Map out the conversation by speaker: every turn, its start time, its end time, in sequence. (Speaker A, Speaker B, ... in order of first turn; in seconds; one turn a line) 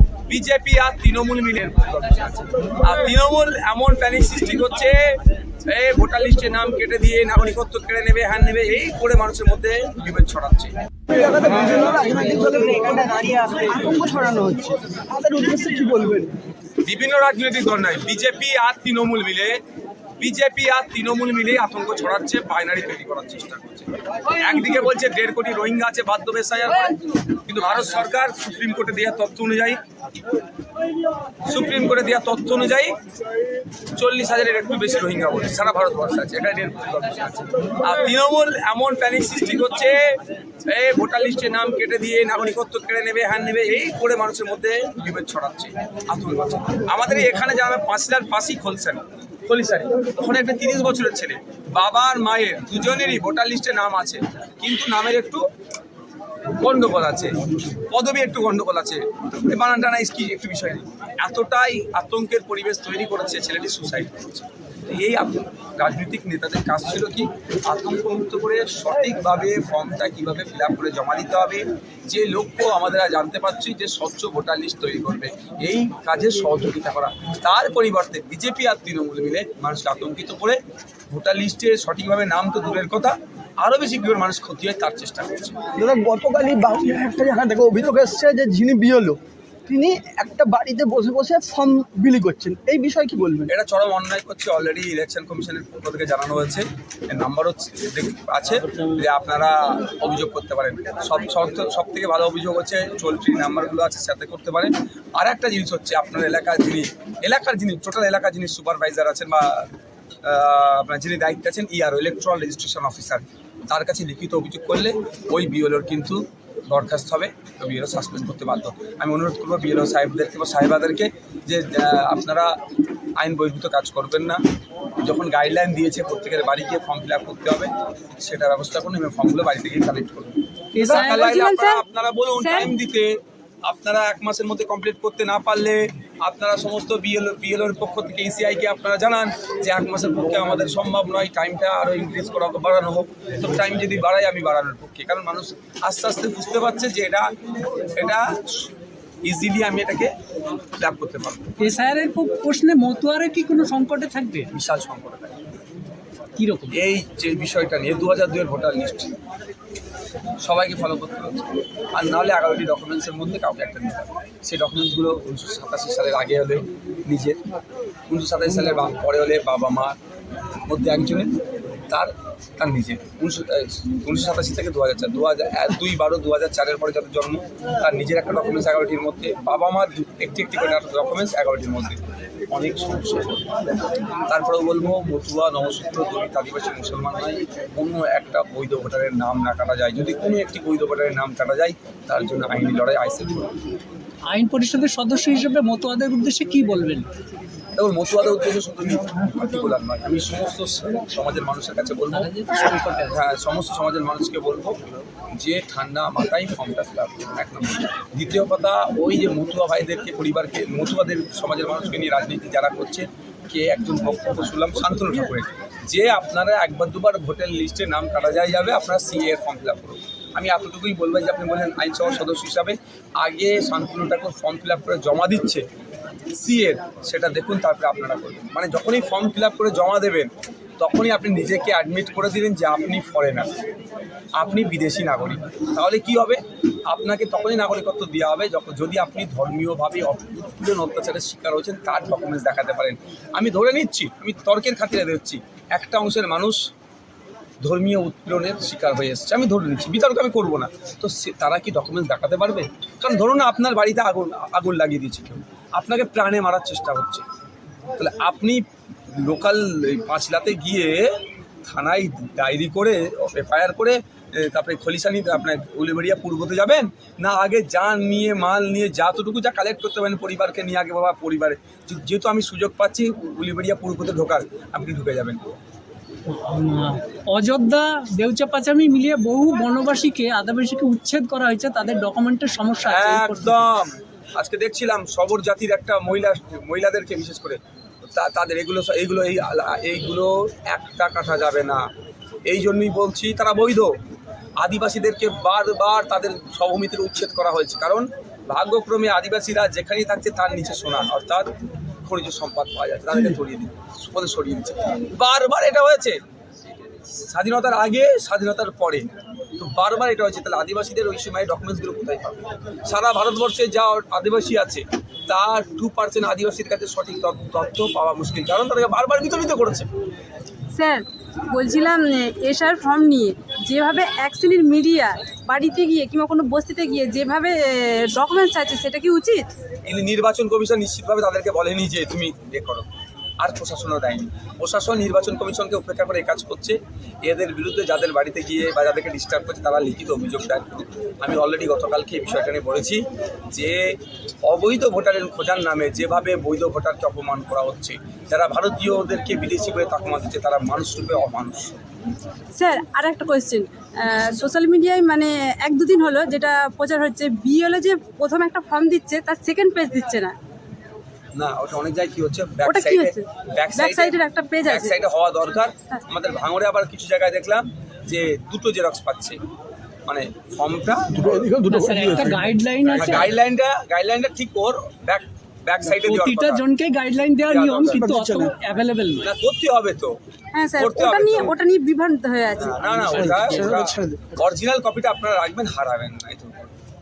Speaker A: 0.2-10.7
Speaker B: 11.1-16.4
Speaker A: 16.8-19.6
Speaker A: 20.2-29.8
Speaker A: 31.4-33.0
Speaker A: 33.9-55.5
Speaker A: 56.5-85.6
Speaker B: 85.7-93.5
Speaker A: 93.5-109.7
Speaker A: 110.2-122.5
Speaker A: 123.2-124.4
Speaker A: 125.0-147.3
Speaker C: 130.7-131.1
Speaker D: 130.8-131.8
Speaker D: 132.4-132.7
Speaker A: 147.9-148.7
Speaker A: 149.2-150.1
Speaker A: 150.8-151.5
Speaker C: 151.6-154.5
Speaker A: 154.5-155.3
Speaker C: 156.3-156.8
Speaker A: 156.7-159.1
Speaker A: 160.4-167.4
Speaker A: 168.1-170.0
Speaker A: 170.7-171.3
Speaker A: 171.9-183.5
Speaker A: 184.2-193.5
Speaker C: 194.2-197.1
Speaker A: 197.8-225.6
Speaker C: 202.1-203.2
Speaker A: 226.3-233.5
Speaker A: 234.3-246.7
Speaker A: 247.6-257.2
Speaker A: 257.9-275.4
Speaker C: 276.2-283.6
Speaker A: 282.9-287.6
Speaker A: 288.1-291.9
Speaker A: 292.5-294.0
Speaker A: 294.6-301.5
Speaker A: 302.0-306.2
Speaker A: 306.8-319.9
Speaker D: 320.7-329.5
Speaker A: 329.8-332.9
Speaker A: 333.4-351.7
Speaker D: 352.5-360.3
Speaker A: 361.3-369.4
Speaker D: 362.6-364.9
Speaker A: 370.1-371.6
Speaker B: 371.1-372.5
Speaker C: 371.7-373.3
Speaker A: 372.9-376.6
Speaker C: 375.8-379.3
Speaker A: 377.4-378.0
Speaker B: 377.9-378.5
Speaker A: 379.2-380.2
Speaker D: 380.5-383.3
Speaker A: 380.8-381.6
Speaker A: 382.6-386.7
Speaker B: 383.0-384.3